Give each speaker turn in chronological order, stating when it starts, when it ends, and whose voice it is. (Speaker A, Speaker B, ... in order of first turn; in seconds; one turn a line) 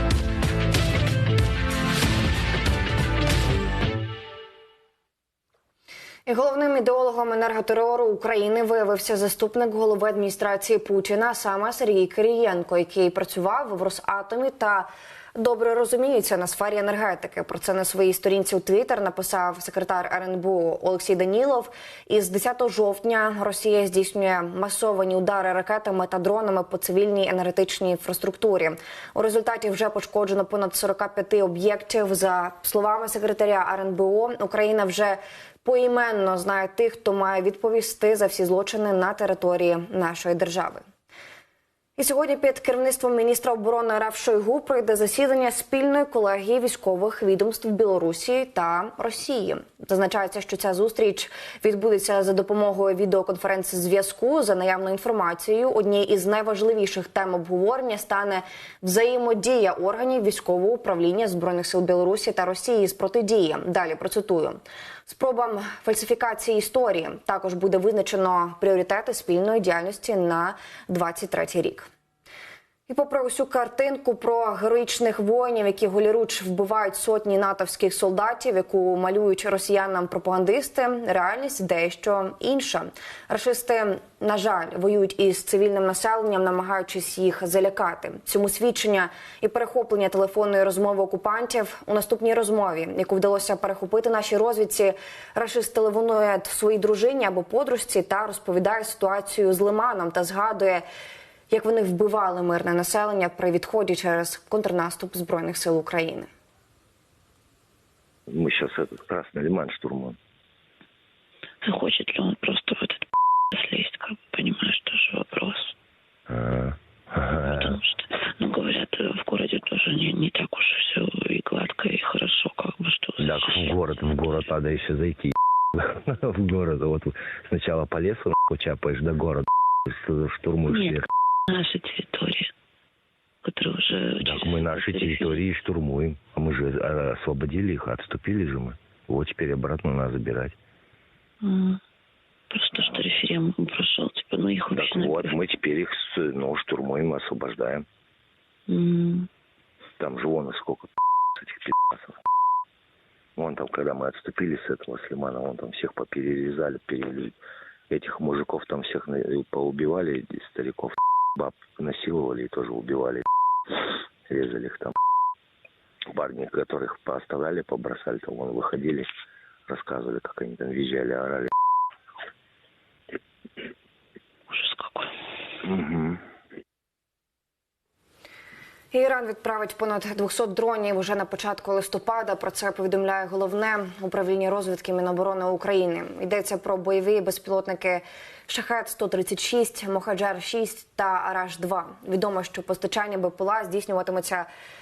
Speaker A: 6.3-40.8
Speaker A: 42.0-71.9
Speaker A: 72.9-100.8
Speaker A: 101.5-106.3
Speaker B: 108.3-110.2
Speaker C: 111.6-115.7
Speaker B: 116.3-117.8
Speaker C: 117.4-123.7
Speaker B: 123.2-131.1
Speaker C: 130.7-132.5
Speaker C: 133.4-135.4
Speaker B: 134.2-140.6
Speaker C: 141.4-141.8
Speaker C: 142.5-145.3
Speaker B: 144.7-147.9
Speaker C: 148.7-149.3
Speaker B: 150.0-152.2
Speaker B: 153.4-157.4
Speaker B: 157.9-163.2
Speaker B: 164.3-164.9
Speaker B: 166.1-169.1
Speaker B: 169.7-171.5
Speaker C: 174.5-175.1
Speaker B: 175.6-176.2
Speaker A: 178.9-194.5